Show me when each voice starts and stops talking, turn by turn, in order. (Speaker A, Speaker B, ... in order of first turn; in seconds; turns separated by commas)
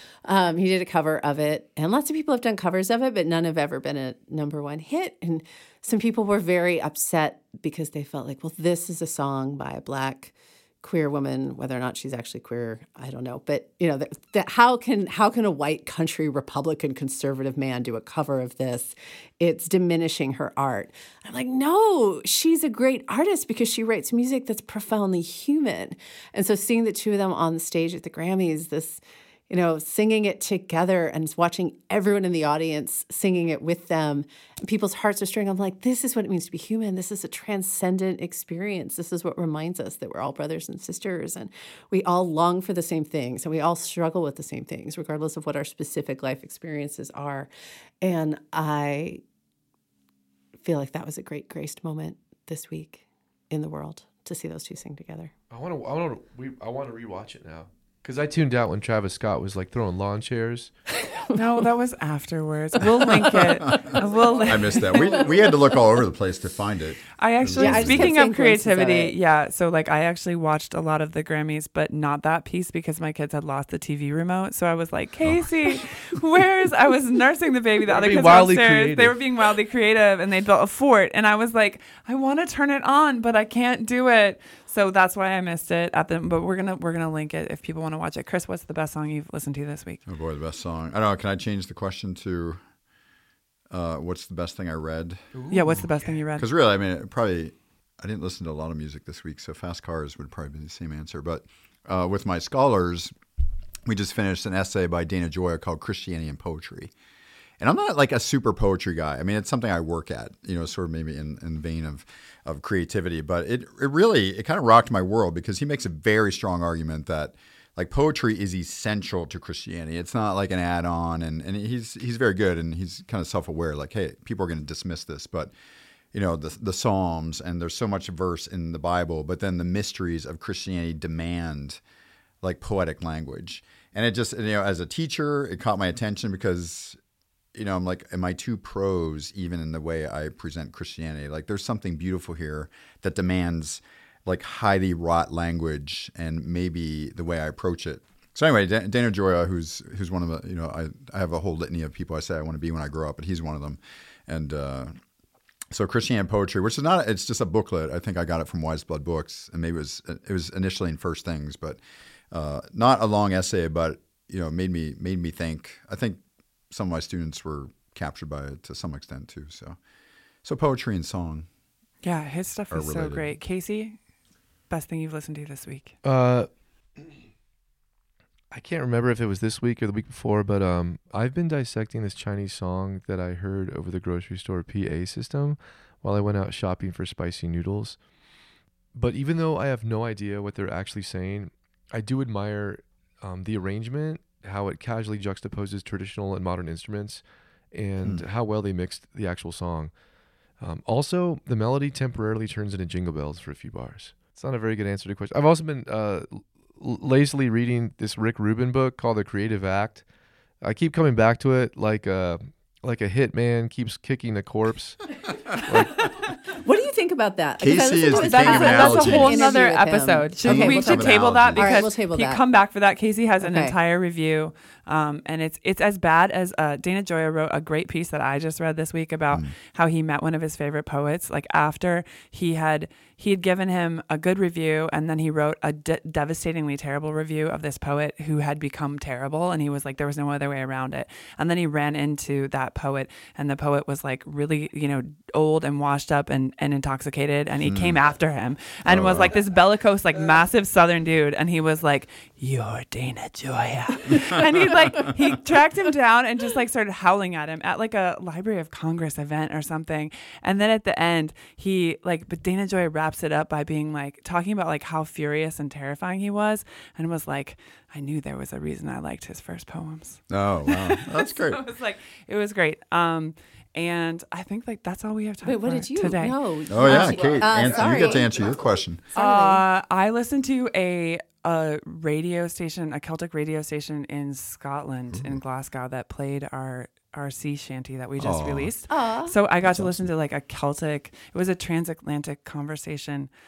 Speaker A: 0.2-47.5, Speaker A: 48.0-49.2, Speaker A: 50.6-55.3, Speaker B: 55.5-60.7, Speaker A: 61.0-61.3, Speaker C: 61.3-65.2, Speaker D: 63.7-68.1, Speaker C: 67.2-90.0, Speaker A: 67.5-69.1, Speaker D: 75.2-75.5, Speaker B: 77.9-79.2, Speaker D: 90.1-92.6, Speaker D: 93.7-95.8, Speaker B: 95.3-96.2, Speaker C: 95.5-96.5, Speaker D: 96.4-103.1, Speaker D: 103.9-106.9, Speaker D: 107.6-125.5, Speaker D: 126.1-131.8, Speaker D: 132.4-137.0, Speaker D: 137.5-154.9, Speaker D: 155.7-161.8, Speaker D: 162.3-169.8, Speaker D: 170.4-171.5, Speaker C: 172.0-174.0, Speaker D: 172.7-173.3, Speaker C: 174.7-175.9, Speaker B: 176.0-177.1, Speaker B: 178.5-188.1, Speaker B: 188.9-199.9, Speaker B: 200.6-210.1, Speaker B: 210.6-216.1, Speaker A: 216.5-222.4, Speaker D: 217.6-219.6, Speaker C: 218.1-277.2, Speaker D: 220.4-221.9, Speaker A: 223.4-223.8, Speaker D: 247.7-248.0, Speaker D: 248.8-249.3, Speaker D: 270.3-271.6, Speaker A: 275.4-279.6, Speaker D: 276.7-279.1, Speaker C: 279.1-293.3, Speaker D: 285.1-285.4, Speaker D: 288.2-288.7, Speaker A: 288.9-289.3, Speaker D: 289.6-290.1